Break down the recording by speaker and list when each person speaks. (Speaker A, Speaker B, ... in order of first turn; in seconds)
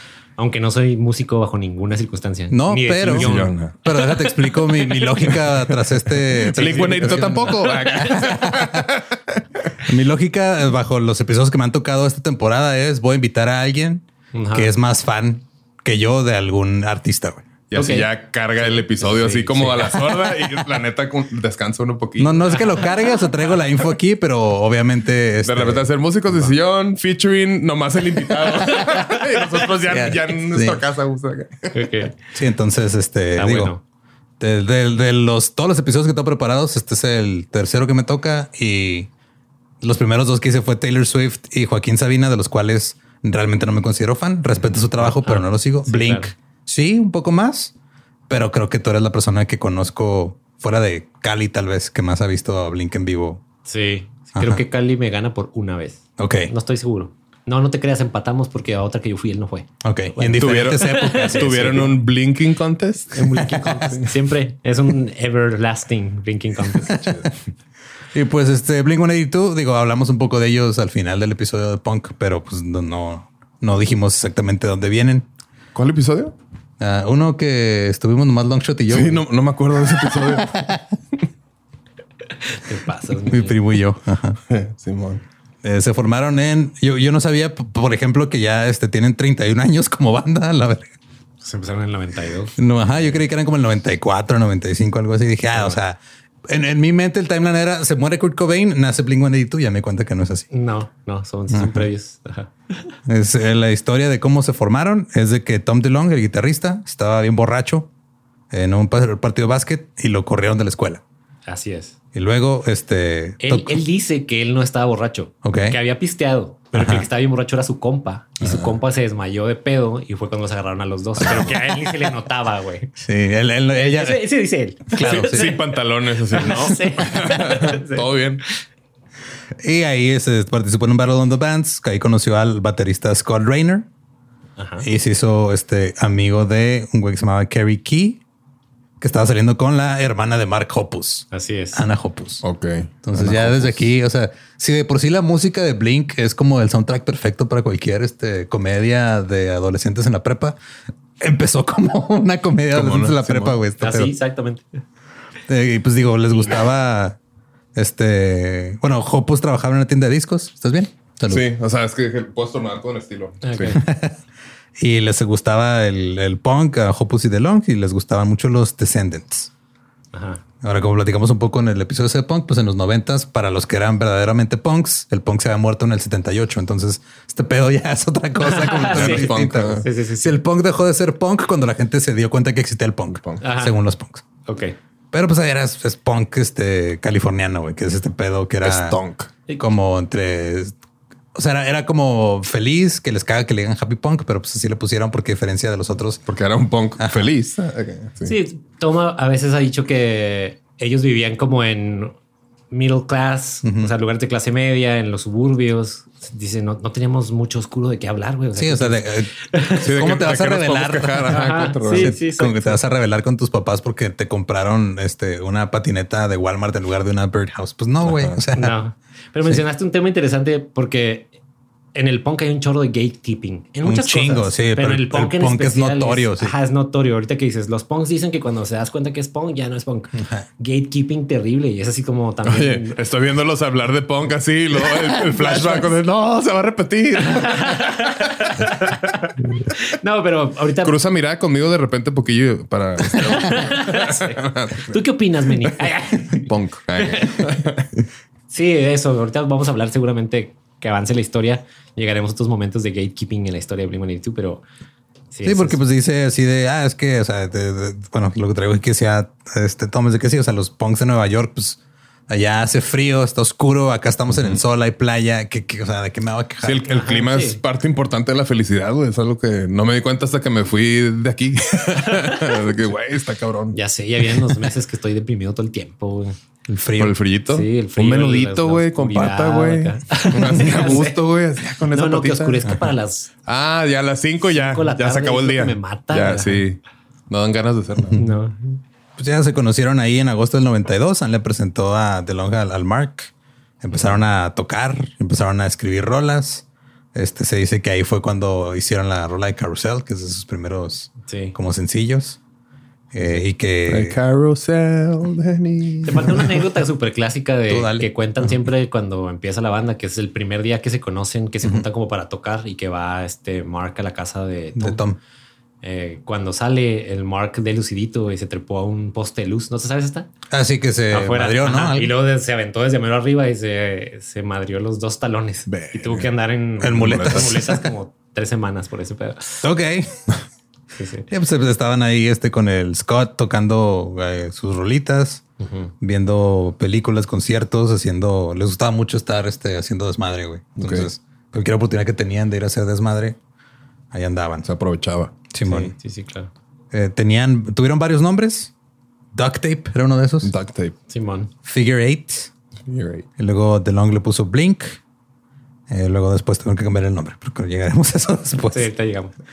Speaker A: 0.4-5.3, 6.8-8.3, 14.3-14.7, 17.7-20.2, 31.7-32.1, 33.4-33.8, 45.0-46.3, 53.6-61.9, 63.1-67.2, 82.4-83.6, 91.4-92.5, 95.5-95.8, 100.5-102.9, 111.5-111.9, 113.4-122.9, 123.8-125.7, 126.3-128.1, 134.6-134.9, 141.3-141.8, 153.8-154.8, 163.4-163.8, 170.1-170.4, 178.5-180.4, 183.4-183.7, 184.4-184.7, 198.2-202.2, 202.7-209.9, 211.3-212.8, 218.5-221.3, 221.9-232.9, 234.8-235.9, 237.2-241.0, 243.2-247.5, 248.5-254.6, 255.3-255.8, 266.9-267.6, 272.1-272.6, 273.7-276.4, 277.5-281.2, 281.9-283.3, 284.5-286.6, 288.2-288.8, 301.3-301.6, 306.0-315.0, 315.8-320.3, 321.1-329.6, 330.9-331.3, 335.6-335.9, 345.6-346.5, 351.1-351.5, 358.7-359.3
Speaker B: 2.5-3.3, 3.8-8.9, 9.8-17.5, 22.2-26.5, 29.8-30.8, 32.3-33.7, 34.4-39.1, 39.8-47.7, 48.3-53.4, 54.3-54.6, 56.2-56.5, 59.8-61.9, 68.1-75.3, 76.8-79.2, 79.8-80.8, 83.2-84.4, 85.6-90.9, 92.6-100.5, 101.5-101.9, 103.0-107.9, 108.5-111.0, 112.1-113.8, 115.4-115.8, 116.7-117.0, 123.0-124.2, 124.9-125.5, 129.6-133.9, 134.8-138.2, 139.0-142.4, 143.0-150.6, 151.2-154.1, 155.5-157.2, 157.7-161.4, 163.7-164.2, 164.8-169.5, 170.6-184.2, 185.1-189.0, 189.6-190.7, 191.3-196.2, 197.0-197.2, 203.6-203.9, 208.5-218.8, 223.8-226.5, 230.2-230.4, 255.4-266.8, 276.7-277.1, 289.2-293.3, 293.8-302.4, 303.1-304.2, 307.7-308.1, 314.8-315.2, 320.5-322.1, 326.8-327.8, 329.6-330.1, 331.3-335.4, 336.0-343.4, 344.1-344.7, 345.5-345.9, 346.9-348.7, 349.3-350.5, 351.6-352.5, 353.4-355.0, 355.9-358.9
Speaker C: 3.0-3.7, 5.5-5.7, 6.3-9.4, 17.7-22.7, 25.4-31.9, 60.3-64.0, 75.7-76.3, 78.9-80.6, 84.5-85.2, 118.4-118.8, 125.0-128.4, 142.4-143.8, 152.7-153.6, 161.3-163.8, 178.8-179.8, 188.6-189.3, 196.3-198.3, 209.8-212.2, 218.0-218.4, 232.4-238.7, 240.8-245.0, 245.6-248.0, 266.6-274.7, 277.0-282.6, 283.4-288.3, 303.9-306.6, 325.7-326.3, 326.8-327.6, 340.8-341.1, 344.6-345.3, 350.4-350.9, 352.9-353.2